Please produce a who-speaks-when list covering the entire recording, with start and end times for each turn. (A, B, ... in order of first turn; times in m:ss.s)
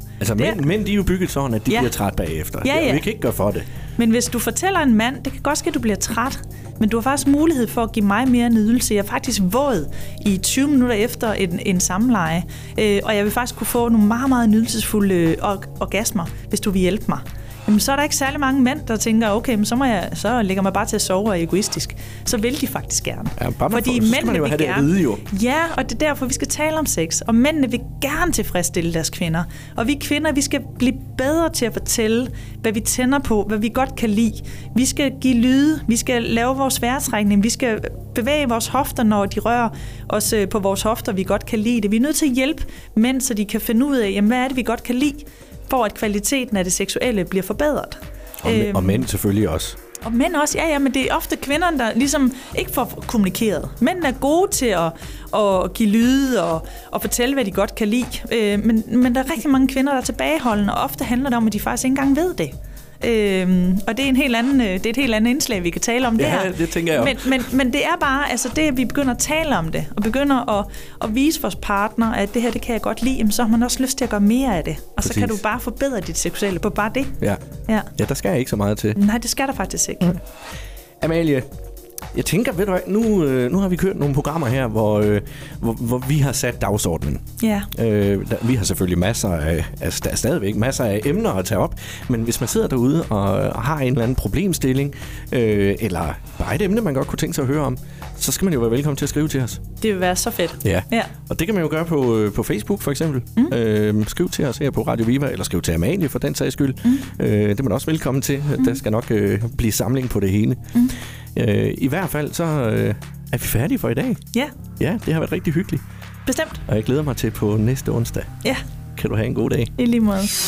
0:00.2-0:03.7 A
0:00.4-0:00.6 B
0:01.7-0:01.9 B
0:02.6-0:03.0 B
0:04.0-0:49.0 B
0:23.4-0:25.2 A
0:48.4-0:49.8 A
0:50.0-1:17.9 B
1:06.2-1:07.4 A
1:15.0-1:15.4 A
1:18.0-1:19.0 A
1:18.9-1:20.2 B
1:21.0-1:21.5 A
1:22.1-1:27.2 A
1:27.4-1:27.7 B
1:27.7-1:39.6 A
1:39.8-1:41.1 B
1:40.6-1:50.6 A
1:51.4-1:54.2 A
1:54.8-1:55.8 A
1:56.2-1:56.6 B
1:56.7-1:58.3 A
1:59.0-1:59.7 A
1:59.8-2:00.3 B